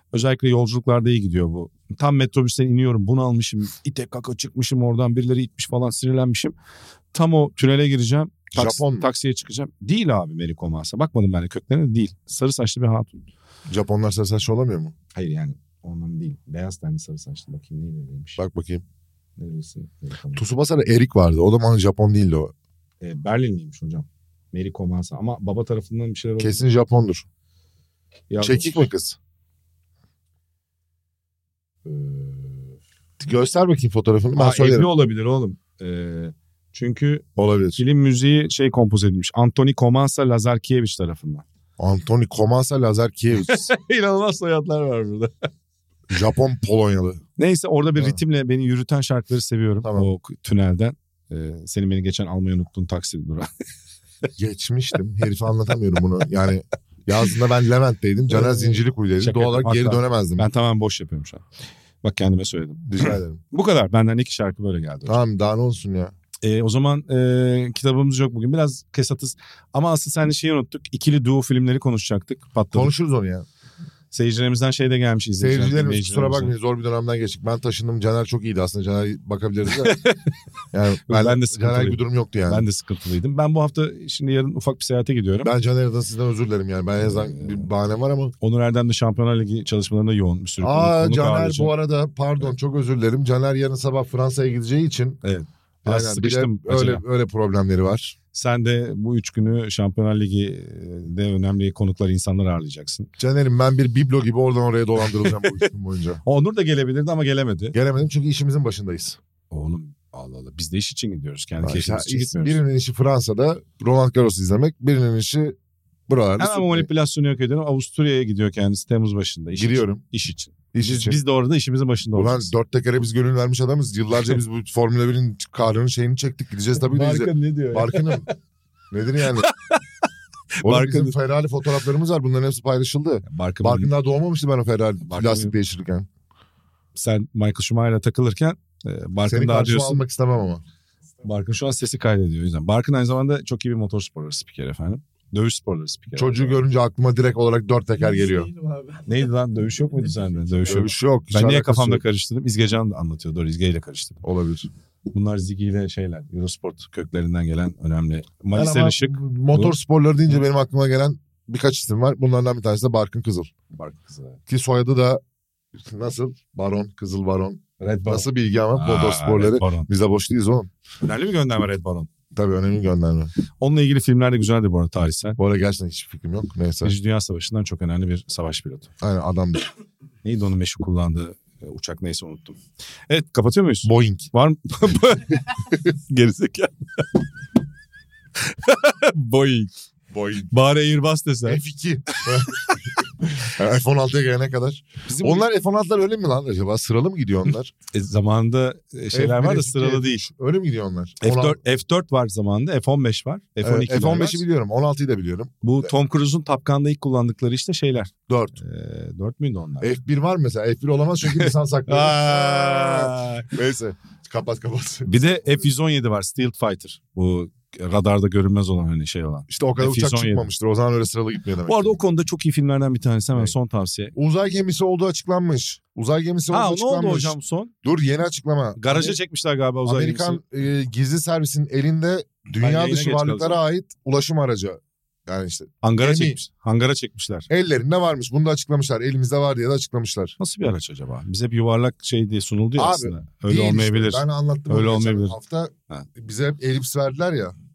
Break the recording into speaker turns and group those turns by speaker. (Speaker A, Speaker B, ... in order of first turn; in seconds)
Speaker A: 0.1-6.5, 7.1-13.2, 15.1-18.4, 19.4-20.4, 23.0-26.7, 28.3-28.9, 31.8-32.8, 34.4-37.2, 37.8-41.4, 43.5-45.5, 47.4-53.5, 58.3-61.4, 62.0-65.2, 66.4-72.9, 74.1-76.5, 79.7-80.3, 81.0-85.5, 87.0-87.7, 88.4-91.7, 95.2-97.0, 98.3-103.1, 105.1-105.7, 106.2-107.8, 109.5-112.6, 116.4-122.5, 126.8-128.3, 129.2-129.8, 130.6-131.1, 133.3-133.9, 135.0-135.5, 136.9-140.0, 141.2-146.6, 149.1-154.2, 155.1-159.7, 163.7-164.4, 167.8-169.9, 171.0-172.1, 173.6-175.4, 176.8-178.9, 180.2-182.6, 183.1-187.2, 188.4-189.7, 190.5-192.9, 195.1-195.5, 197.9-200.2, 201.2-204.4, 205.6-209.9, 211.2-213.5, 215.0-220.5, 221.7-224.1, 226.5-227.7, 228.8-230.4, 232.6-233.6, 235.8-237.5, 240.4-245.3
Speaker B: 8.5-9.1, 13.7-14.9, 18.4-18.8, 20.3-22.5, 26.4-27.3, 28.4-29.2, 33.2-34.9, 37.4-37.8, 41.8-43.7, 46.1-47.2, 49.8-50.1, 54.4-60.5, 62.9-63.4, 65.1-66.1, 72.7-73.5, 75.4-80.0, 80.7-82.6, 85.4-88.3, 90.6-95.2, 95.8-98.1, 103.2-106.2, 107.7-109.2, 111.6-115.6, 116.1-116.9, 119.5-120.0, 120.7-121.2, 122.1-128.3, 128.9-129.5, 130.6-136.1, 139.2-140.6, 146.2-148.5, 150.7-152.0, 154.2-154.7, 158.5-163.5, 164.5-165.2, 165.8-170.7, 172.3-173.3, 175.4-176.9, 179.0-179.7, 183.8-184.3, 190.1-190.5, 191.4-197.7, 199.1-201.6, 203.6-205.9, 208.3-208.6, 209.8-215.7, 219.5-222.0, 224.1-229.2, 229.8-236.4, 237.5-240.3, 242.8-247.6
Speaker C: 147.9-150.8